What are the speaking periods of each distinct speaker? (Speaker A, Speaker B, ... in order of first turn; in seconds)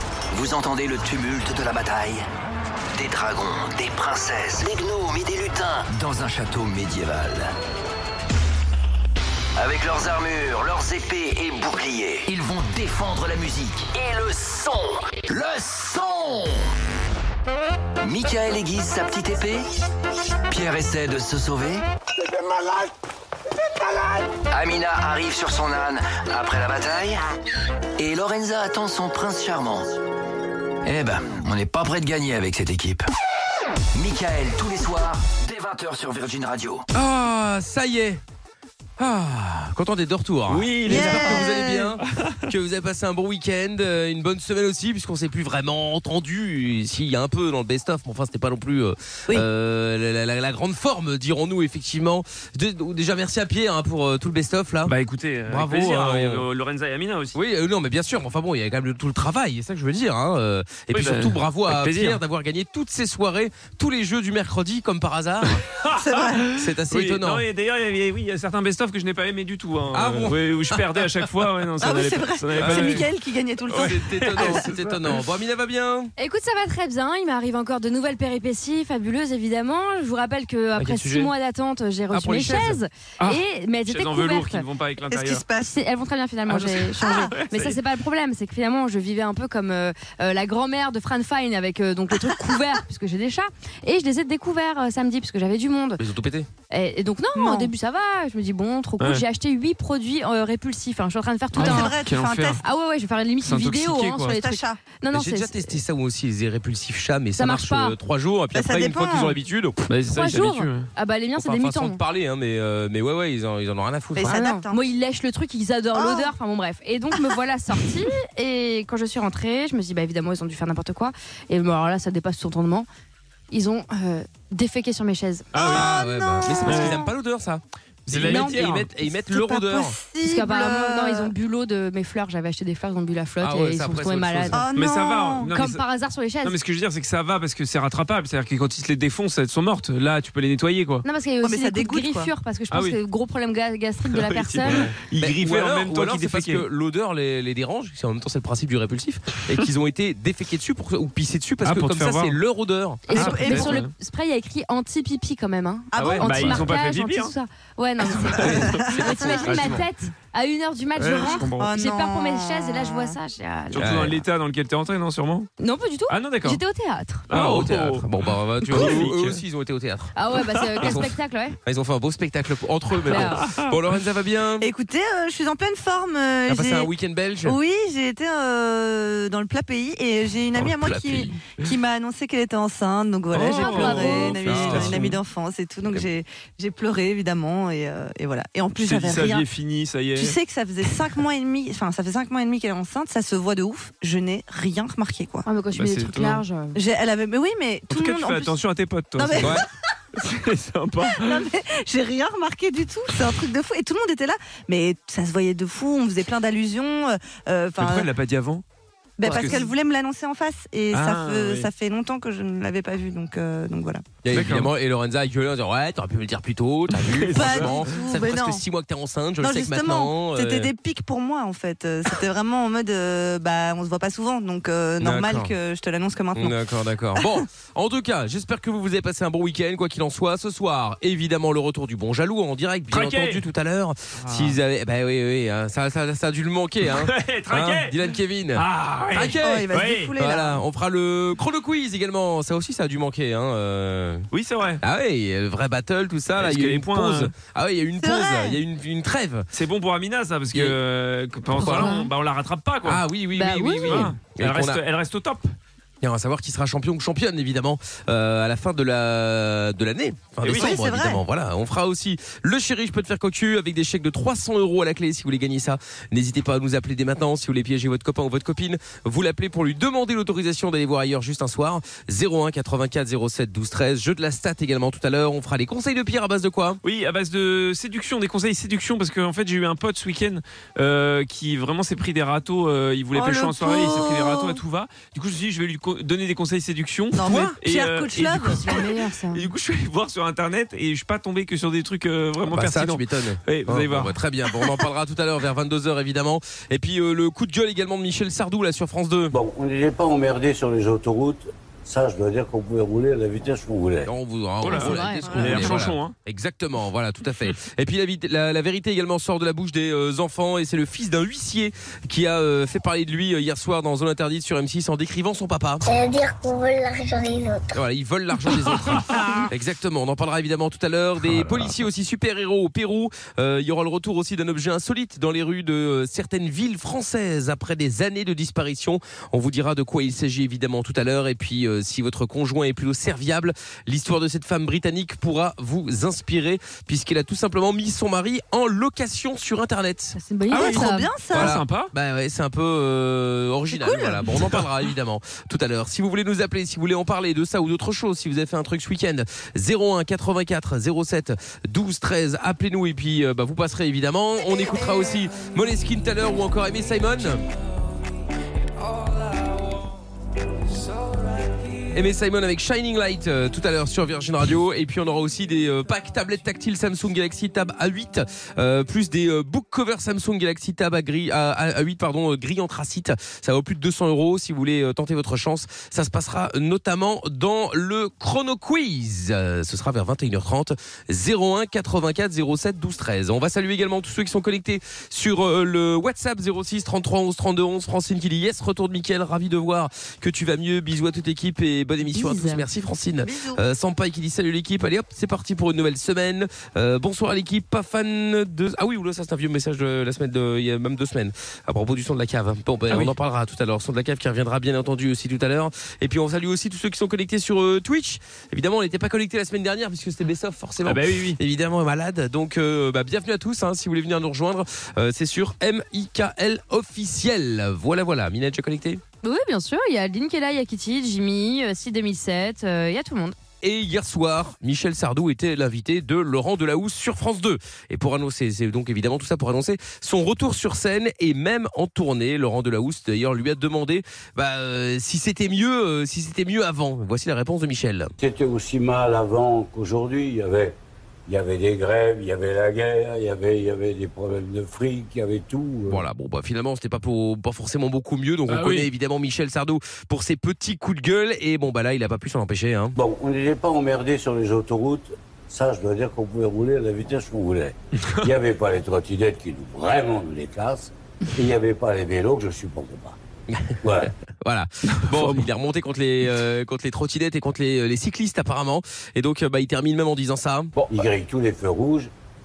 Speaker A: 0.3-2.2, 2.9-7.5, 9.6-16.7, 18.0-19.7, 20.5-21.8, 24.5-27.2, 28.0-29.9, 30.8-33.0, 33.9-36.8
Speaker B: 36.9-38.2, 39.0-54.9, 55.5-56.5, 57.3-65.6, 66.5-67.4, 69.9-71.2, 72.6-73.0, 73.7-76.1, 80.8-81.3, 96.0-96.5, 105.1-109.8, 111.4-114.3, 125.7-130.0, 133.4-134.6, 145.2-153.7, 158.4-159.8, 163.8-164.2, 167.3-174.7, 176.5-177.6, 180.6-181.3, 183.8-185.1, 214.2-220.7, 225.0-225.5, 226.3-244.2, 244.8-249.5, 250.5-250.8, 251.6-251.9, 252.8-254.8, 256.0-276.8, 292.5-299.3, 304.1-315.8, 317.7-340.2, 341.3-357.4, 361.9-419.0, 423.6-438.1, 445.9-452.9, 463.5-470.7
Speaker C: 40.5-41.6, 54.9-57.3, 60.9-62.2, 65.7-73.1, 73.7-75.2, 82.1-85.4, 86.6-87.8, 101.5-102.6, 103.4-104.3, 109.9-110.9, 125.5-125.9, 126.7-127.0, 128.1-128.9, 134.8-135.8, 136.4-141.0, 142.7-143.0, 144.1-146.7, 151.6-152.3, 153.1-153.9, 156.0-157.3, 158.4-158.8, 161.0-161.7, 163.7-165.5, 166.1-166.6, 167.3-168.1, 168.6-169.4, 173.2-173.7, 183.3-185.2, 188.8-190.3, 195.7-196.4, 197.9-201.5, 207.8-208.6, 209.2-209.7, 210.9-211.7, 214.3-214.7, 216.9-218.0, 232.9-233.4, 234.2-234.6, 236.9-240.1, 244.3-244.8, 246.4-247.3, 249.5-253.0, 253.8-255.5, 260.4-260.8, 276.8-288.8, 289.3-294.1, 304.6-306.1, 318.9-319.2, 341.3-341.9, 344.3-344.7, 410.8-411.4, 448.5-448.9, 465.0-465.5
Speaker D: 40.9-41.9, 66.0-66.5, 71.8-74.6, 85.1-85.8, 86.5-87.3, 97.3-97.7, 101.5-102.6, 104.3-104.8, 108.5-109.3, 114.2-114.8, 115.9-116.3, 125.5-127.1, 128.2-131.3, 134.5-135.5, 141.4-142.3, 155.9-156.7, 158.5-159.5, 161.1-163.2, 174.6-176.9, 177.4-189.4, 190.1-195.4, 196.7-198.6, 199.2-199.6, 201.1-208.1, 209.2-214.0, 217.3-218.6, 219.4-226.5, 239.4-240.6, 248.0-248.6, 260.5-261.2, 283.1-284.6, 287.1-288.9, 340.5-341.6, 343.7-344.2, 393.2-393.6
Speaker E: 76.2-84.6, 85.7-96.0, 96.7-101.9, 102.6-105.7, 107.4-108.0, 110.1-112.0, 114.2-122.9, 123.5-125.6, 130.2-134.6, 135.5-136.6, 141.0-144.9, 153.1-163.9, 165.6-167.3, 170.2-171.6, 173.1-173.4, 183.5-184.3, 195.4-196.8, 251.6-252.1, 253.4-254.1, 288.6-289.5, 304.7-305.6, 340.1-341.1, 392.1-392.6, 419.2-423.4
Speaker F: 299.3-304.1, 438.2-446.0, 453.0-463.1, 463.8-464.1, 470.8-472.1
Speaker G: 315.8-317.8